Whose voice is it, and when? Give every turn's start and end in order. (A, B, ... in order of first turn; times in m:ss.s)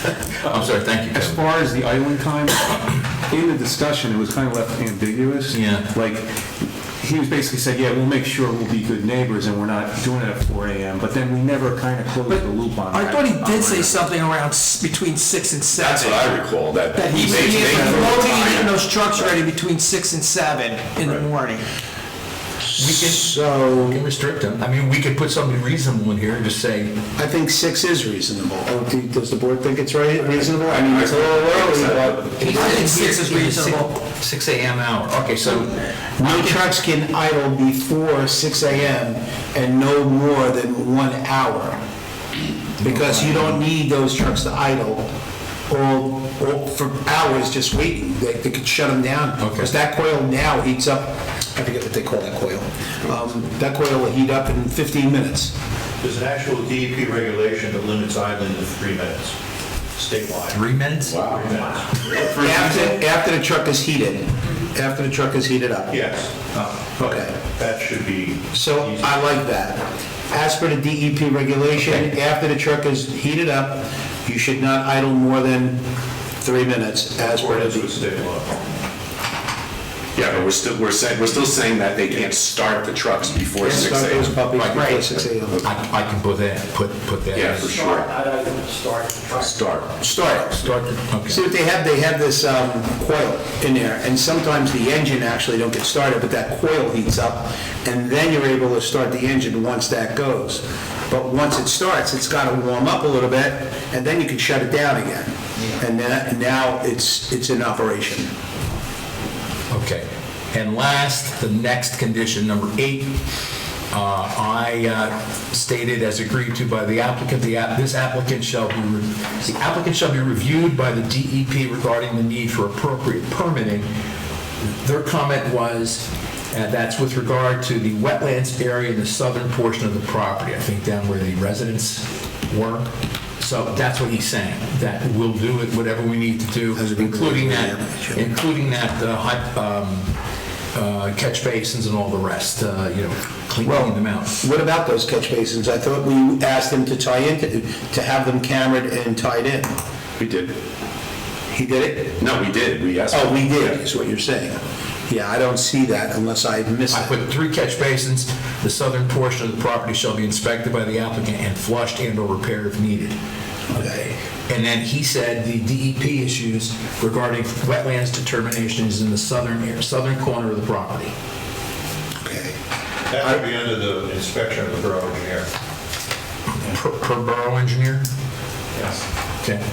0:00.4-0:01.4 A
0:00.5-0:06.4 B
0:05.5-0:05.9 A
0:07.0-0:14.1 B
0:12.3-0:16.4 C
0:15.7-0:19.4 D
0:17.0-0:21.7 C
0:17.3-0:17.8 B
0:22.7-0:24.0 E
0:22.8-0:27.0 A
0:27.2-0:32.9 E
0:30.4-0:32.4 D
0:32.4-0:33.9 C
0:32.5-0:35.7 A
0:36.2-0:41.8 E
0:42.8-0:45.1 E
0:42.8-0:43.3 A
0:45.7-0:55.5 E
0:56.0-0:59.4 F
1:00.0-1:00.6 F
1:00.5-1:01.2 A
1:01.1-1:01.5 D
1:01.3-1:03.0 F
1:02.4-1:05.9 E
1:05.9-1:09.2 F
1:07.0-1:07.3 E
1:08.5-1:15.8 E
1:16.4-1:17.9 E
1:17.2-1:18.6 F
1:20.2-1:24.5 D
1:23.5-1:25.6 E
1:24.7-1:25.1 C
1:25.1-1:25.6 D
1:25.7-1:27.6 A
1:27.3-1:28.1 D
1:27.6-1:29.5 C
1:29.4-1:30.4 D
1:30.0-1:30.7 E
1:30.7-1:31.4 A
1:31.3-1:48.3 E
1:49.7-1:53.2 A
1:53.9-2:03.9 A
2:04.8-2:20.1 A
2:16.7-2:18.2 E
2:20.7-2:24.4 A
2:23.6-2:29.7 E
2:30.2-2:30.6 D
2:31.5-2:32.2 E
2:32.2-2:33.8 D
2:33.1-2:37.1 E
2:36.9-2:43.2 A
2:43.7-2:44.1 E
2:44.5-2:51.1 A
2:52.2-2:52.6 E
2:53.1-2:55.5 F
2:56.7-2:58.1 A